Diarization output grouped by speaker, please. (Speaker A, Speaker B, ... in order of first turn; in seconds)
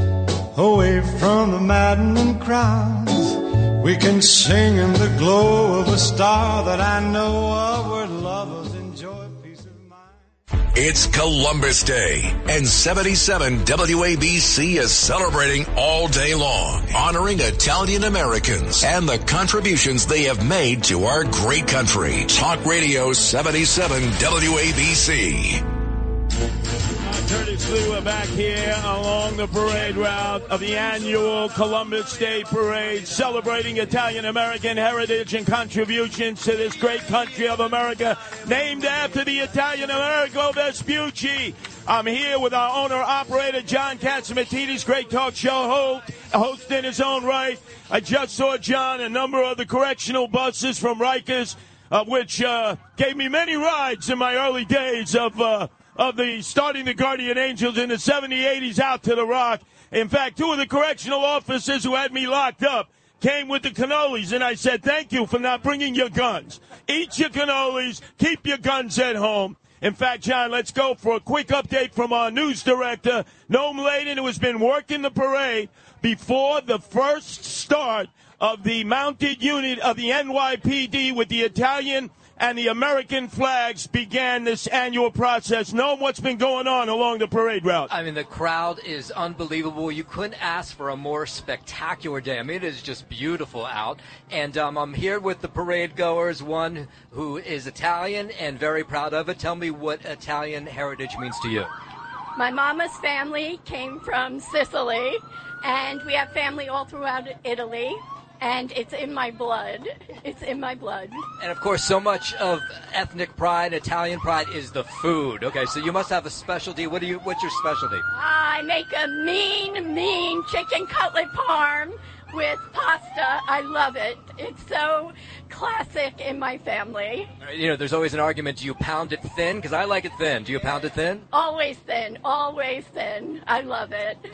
Speaker A: 0.5-10.2
Speaker B: 10.7-25.6
Speaker C: 27.0-87.9
Speaker D: 87.9-101.7, 111.4-118.0, 127.4-131.2
Speaker E: 102.3-111.2, 118.1-127.3, 131.3-134.2